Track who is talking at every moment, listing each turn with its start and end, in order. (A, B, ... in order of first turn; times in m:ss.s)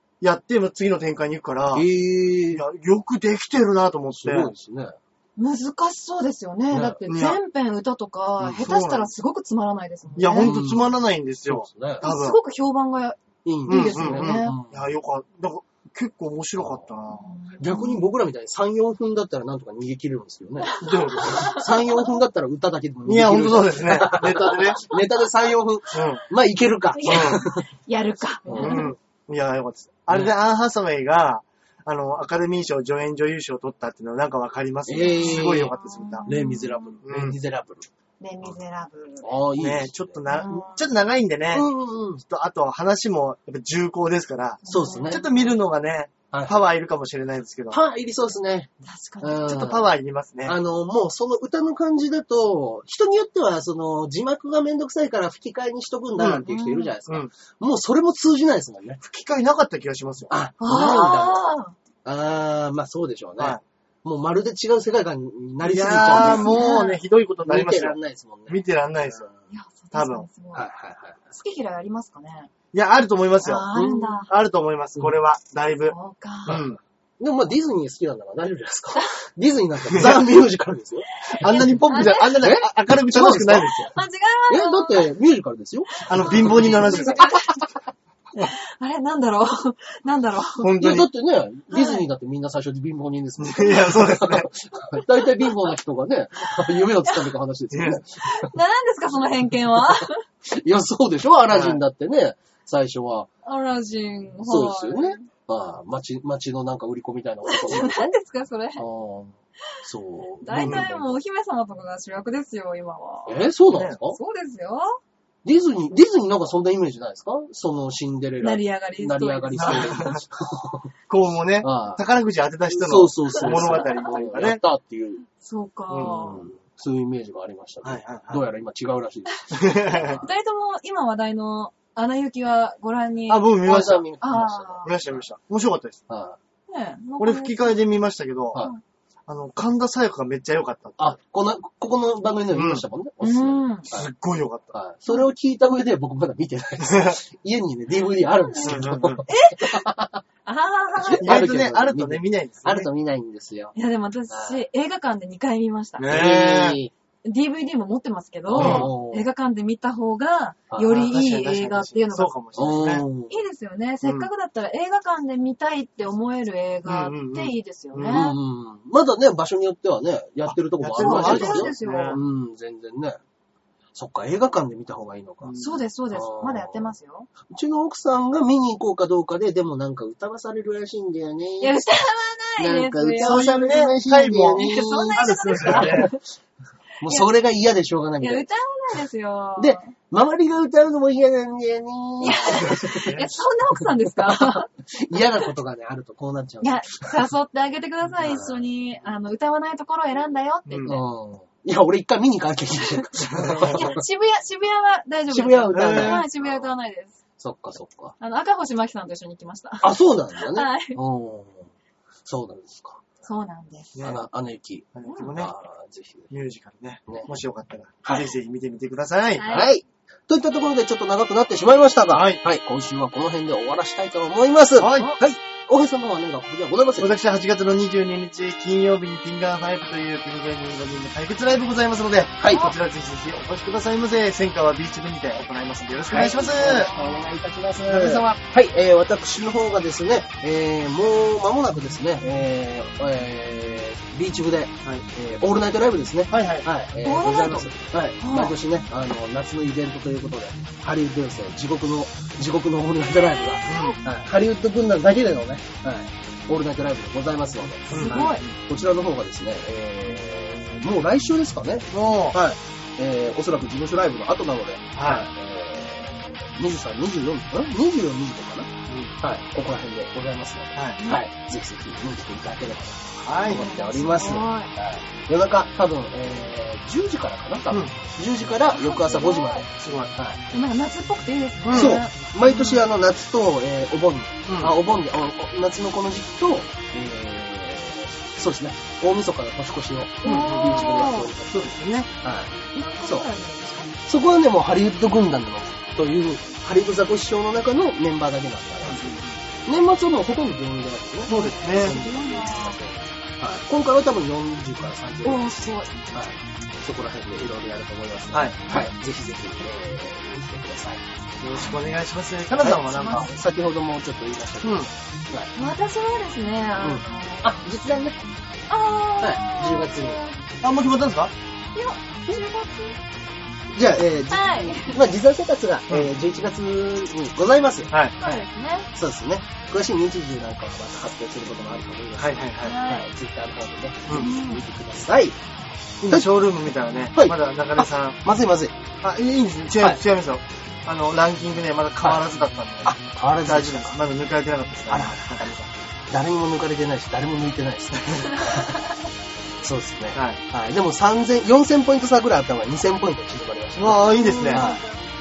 0:00.2-0:01.9 A
0:01.7-0:02.6 B
0:02.5-0:04.5 A
0:04.1-0:05.0 B
0:05.4-0:10.6 C
0:06.7-0:07.0 B
0:07.0-0:07.4 A
0:08.4-0:08.7 B
0:08.6-0:09.1 A
0:10.2-0:12.4 A
0:10.4-0:12.1 B
0:12.0-0:14.5 C
0:13.4-0:14.8 B
0:13.7-0:17.3 A
0:16.6-0:16.9 B
0:17.1-0:18.0 C
0:17.6-0:27.7 B
0:20.7-0:22.1 C
0:20.8-0:21.6 A
0:23.0-0:24.9 A
0:25.9-0:26.2 A
0:26.9-0:28.9 C
0:27.1-0:27.4 A
0:28.4-0:28.9 B
0:28.5-0:36.3 A
0:30.1-0:30.3 B
0:34.8-0:35.7 B
0:35.0-0:37.0 C
0:36.2-0:37.9 B
0:37.0-0:37.4 A
0:38.2-0:39.3 C
0:39.2-0:40.6 B
0:39.6-0:41.7 A
0:40.3-0:40.9 C
0:41.5-0:42.2 B
0:42.2-0:47.8 A
0:44.6-0:45.5 C
0:44.7-0:45.2 B
0:46.3-0:46.6 B
0:47.7-0:49.9 B
0:48.8-0:49.5 C
0:49.4-0:50.6 A
0:50.4-0:59.0 B
0:56.2-0:56.4 A
0:56.5-0:56.9 C
0:59.0-1:00.3 A
1:00.3-1:01.5 B
1:00.6-1:01.7 C
1:02.0-1:06.7 B
1:05.6-1:08.0 A
1:06.1-1:07.0 C
1:07.4-1:09.4 B
1:08.5-1:09.3 A
1:09.5-1:10.7 C
1:09.9-1:10.3 A
1:10.5-1:11.2 B
1:11.3-1:12.5 C
1:12.7-1:13.6 A
1:13.4-1:14.3 C
1:13.7-1:14.2 B
1:14.3-1:16.8 A
1:15.9-1:16.6 C
1:16.5-1:23.9 B
1:19.9-1:20.3 A
1:21.4-1:23.9 A
1:21.8-1:22.5 C
1:23.9-1:25.1 C
1:24.5-1:27.6 B
1:25.9-1:27.5 C
1:26.0-1:27.3 A
1:28.4-1:30.6 C
1:30.6-1:31.1 A
1:30.8-1:38.5 B
1:31.7-1:32.0 C
1:33.4-1:34.5 A
1:37.7-1:38.0 A
1:38.2-1:40.2 C
1:40.4-1:43.3 B
1:41.5-1:41.8 A
1:43.4-1:45.2 C
1:44.4-1:48.1 B
1:47.5-1:48.8 C
1:48.8-1:51.1 B
1:50.4-1:53.5 C
1:50.6-1:50.8 A
1:53.2-1:54.2 B
1:54.1-1:55.0 C
1:55.4-2:00.9 B
1:58.4-2:00.2 C
1:59.6-2:00.2 A
2:01.1-2:04.6 A
2:01.6-2:02.0 B
2:02.7-2:05.2 B
2:03.7-2:04.0 C
2:05.4-2:06.4 C
2:05.9-2:06.2 A
2:06.0-2:10.3 B
2:07.8-2:08.4 A
2:09.5-2:10.2 A
2:10.2-2:14.9 C
2:13.3-2:14.1 A
2:13.6-2:15.2 B
2:14.8-2:16.0 A
2:16.1-2:16.4 B
2:16.7-2:17.9 C
2:17.2-2:18.6 A
2:18.6-2:18.8 C
2:19.3-2:21.1 A
2:21.0-2:24.1 B
2:22.5-2:22.8 A
2:23.2-2:23.9 C
2:23.9-2:24.7 A
2:24.7-2:30.2 B
2:26.8-2:27.2 A
2:28.5-2:29.8 C
2:28.6-2:29.2 A
2:30.4-2:31.3 C
2:31.0-2:33.8 B
2:31.2-2:32.9 A
2:33.7-2:36.1 C
2:34.3-2:34.6 B
2:36.0-2:36.8 A
2:36.0-2:36.9 B
2:37.2-2:42.4 C
2:38.5-2:39.3 B
2:38.5-2:38.9 A
2:40.7-2:41.0 B
2:40.8-2:43.1 A
2:42.5-2:43.3 B
2:43.3-2:48.4 C
2:44.0-2:44.3 A
2:46.8-2:48.3 A
2:48.0-2:53.2 B
2:50.4-2:52.2 A
2:50.9-2:52.2 C
2:53.9-2:55.6 B
2:55.4-2:55.8 A
2:55.6-2:57.3 C
2:56.1-2:56.9 B
2:57.4-3:01.8 B
3:01.6-3:06.2 C
3:02.6-3:06.2 B
3:03.2-3:06.1 A
3:07.0-3:08.5 B
3:08.2-3:09.9 C
3:09.6-3:13.2 B
3:12.2-3:14.6 C
3:12.3-3:13.3 A
3:14.3-3:17.2 B
3:16.6-3:21.0 C
3:18.2-3:18.6 B
3:20.7-3:21.0 A
3:20.8-3:24.0 B
3:23.3-3:23.8 A
3:23.7-3:27.2 C
3:25.3-3:26.7 B
3:25.7-3:26.2 A
3:27.4-3:28.1 B
3:28.2-3:31.0 C
3:29.8-3:31.7 B
3:32.2-3:33.0 B
3:33.2-3:33.9 C
3:34.0-3:34.2 A
3:34.0-3:36.3 B
3:34.9-3:35.5 A
3:35.0-3:35.4 C
3:36.3-3:39.5 A
3:38.0-3:38.3 B
3:39.4-3:39.7 C
3:39.4-3:47.2 B
3:42.1-3:42.4 A
3:44.8-3:45.2 A
3:47.0-3:56.9 A
3:52.4-3:52.7 B
3:52.5-3:52.7 C
3:56.1-4:40.4 B
3:56.4-3:57.2 C
3:57.8-3:58.4 A
4:06.3-4:06.6 A
4:07.0-4:08.6 C
4:13.5-4:14.0 C
4:13.6-4:14.0 A
4:17.9-4:18.4 C
4:17.9-4:18.5 A
4:21.9-4:22.4 A
4:25.0-4:25.2 A
4:30.7-4:31.0 A
4:31.0-4:31.2 C
4:33.2-4:33.6 A
4:33.5-4:34.7 C
4:38.7-4:39.7 C
4:39.8-4:40.1 A
4:40.5-4:42.8 C
4:41.6-4:42.0 A
4:41.7-4:51.7 B
4:44.5-4:44.7 A
4:50.2-4:51.3 C
4:50.2-4:52.1 A
4:52.2-4:53.3 B
4:52.7-4:53.9 C
4:54.0-5:11.1 B
4:58.8-4:59.3 A
5:01.3-5:02.0 A
5:01.3-5:02.8 C
5:05.2-5:06.1 C
5:11.4-5:13.3 A
5:12.6-5:15.5 B
5:12.9-5:13.3 C
5:14.6-5:14.9 A
5:15.5-5:17.8 C
5:16.8-5:18.2 B
5:18.7-5:20.4 C
5:19.2-5:20.2 B
5:20.6-5:21.3 A
5:21.7-5:23.0 C
5:23.7-5:28.4 B
5:24.3-5:25.1 C
5:28.2-5:28.9 C
5:28.9-5:35.4 B
5:32.2-5:32.8 A
5:32.6-5:33.1 C
5:34.1-5:34.3 A
5:34.1-5:34.6 C
5:36.0-5:38.2 A
5:37.1-5:38.8 B
5:39.0-5:45.7 A
5:42.8-5:44.0 B
5:44.9-5:45.4 B
5:46.1-5:48.8 B
5:49.6-5:54.8 B
5:53.8-5:54.6 A
5:54.1-5:54.9 C